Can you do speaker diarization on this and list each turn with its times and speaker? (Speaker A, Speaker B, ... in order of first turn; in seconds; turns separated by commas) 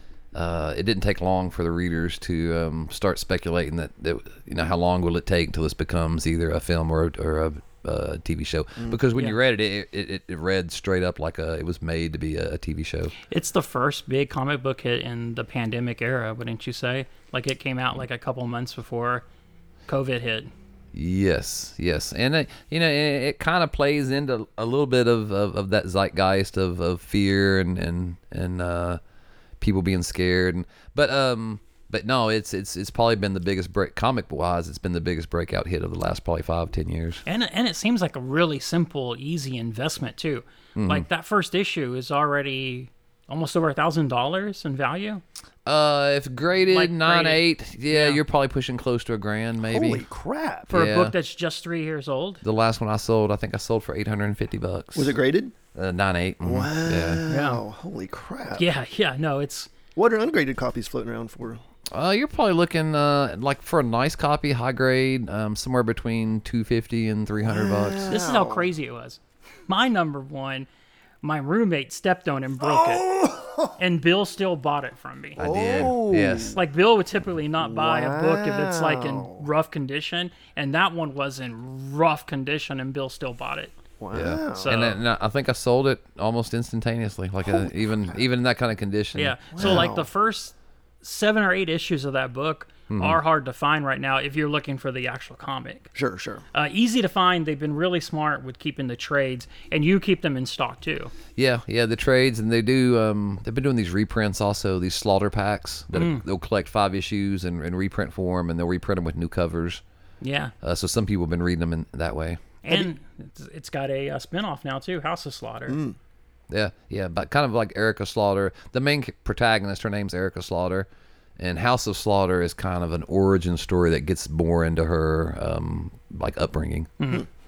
Speaker A: 0.3-13.1, Speaker B: 13.3-19.3, Speaker B: 19.9-20.5, Speaker A: 20.9-29.0, Speaker A: 29.6-37.2, Speaker B: 37.3-45.2, Speaker A: 40.8-41.0, Speaker A: 45.7-50.0, Speaker B: 46.6-48.2, Speaker C: 49.6-50.7, Speaker A: 50.7-51.1, Speaker B: 50.7-52.4, Speaker A: 52.4-55.1, Speaker C: 55.0-55.5, Speaker A: 55.8-57.2, Speaker C: 56.4-58.6, Speaker B: 57.3-57.6, Speaker B: 58.5-59.7, Speaker C: 60.0-61.6, Speaker A: 61.9-68.2, Speaker C: 67.4-68.7, Speaker B: 68.1-70.7, Speaker B: 71.2-73.2, Speaker C: 72.6-73.7, Speaker B: 73.8-75.4, Speaker A: 75.4-76.6, Speaker C: 75.4-76.6, Speaker B: 76.5-83.7, Speaker C: 77.6-79.5, Speaker C: 84.0-84.7, Speaker A: 84.1-89.9, Speaker B: 84.6-85.0, Speaker C: 87.5-87.7, Speaker B: 89.2-95.9, Speaker C: 89.5-90.1, Speaker A: 92.9-93.2, Speaker C: 96.0-96.4, Speaker B: 96.5-101.1, Speaker A: 101.3-109.8, Speaker B: 105.9-106.2, Speaker B: 110.2-110.5, Speaker A: 110.6-112.4, Speaker B: 112.6-115.8, Speaker C: 115.7-116.0, Speaker A: 116.5-120.9, Speaker A: 121.4-127.0, Speaker B: 127.0-127.2